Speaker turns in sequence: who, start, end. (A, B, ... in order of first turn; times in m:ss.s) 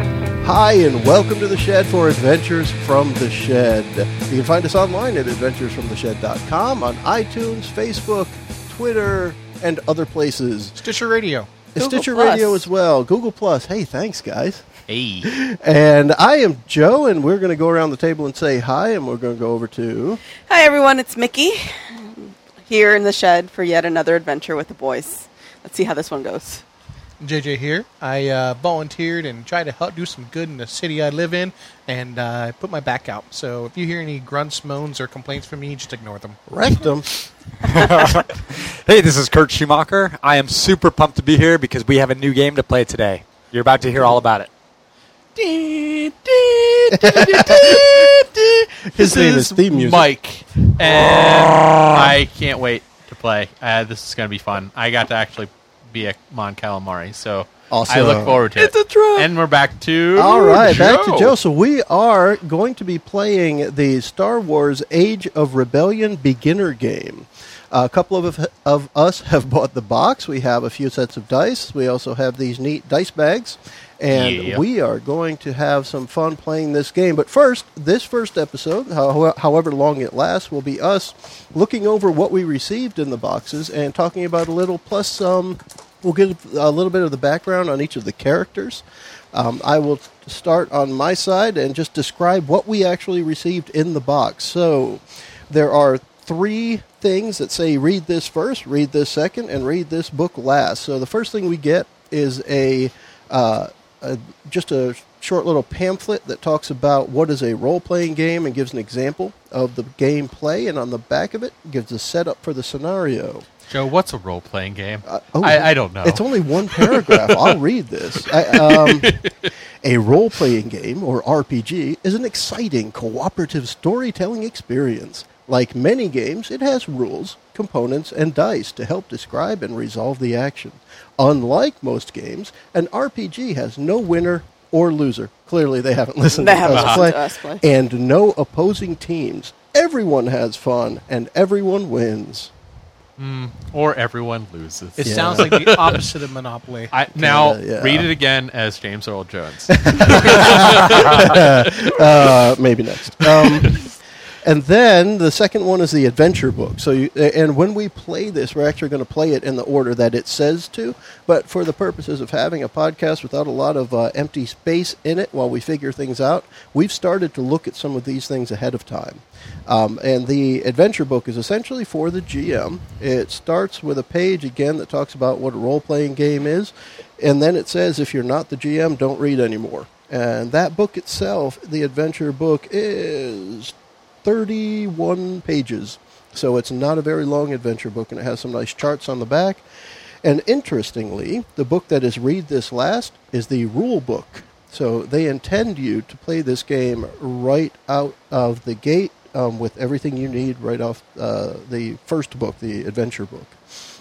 0:00.4-0:10.8 A
0:10.8-0:11.5 B
0:11.7-0:14.6 A
0:11.8-0:12.6 C
0:14.9-0:15.3 D
0:15.2-0:20.2 A
0:20.4-0:26.6 C
0:27.2-0:36.4 B
0:36.5-0:37.1 A
0:37.6-0:44.5 E
0:45.4-1:01.3 D
0:47.0-0:48.0 A
0:48.9-0:50.1 A
0:51.6-0:51.9 E
0:57.7-0:58.7 A
1:00.1-1:53.4 A
1:14.1-1:14.6 D
1:53.7-1:57.6 D
1:55.0-1:59.2 A
1:58.2-1:59.5 D
1:59.8-2:22.5 A
2:16.3-2:17.6 C
2:16.7-2:17.1 D
2:23.2-2:26.0 D
2:25.0-2:26.9 B
2:25.0-2:25.5 A
2:26.9-2:32.5 D
2:27.1-2:28.1 A
2:29.7-2:33.9 A
2:33.2-2:33.9 D
2:34.4-3:09.6 A
3:10.2-3:23.6 A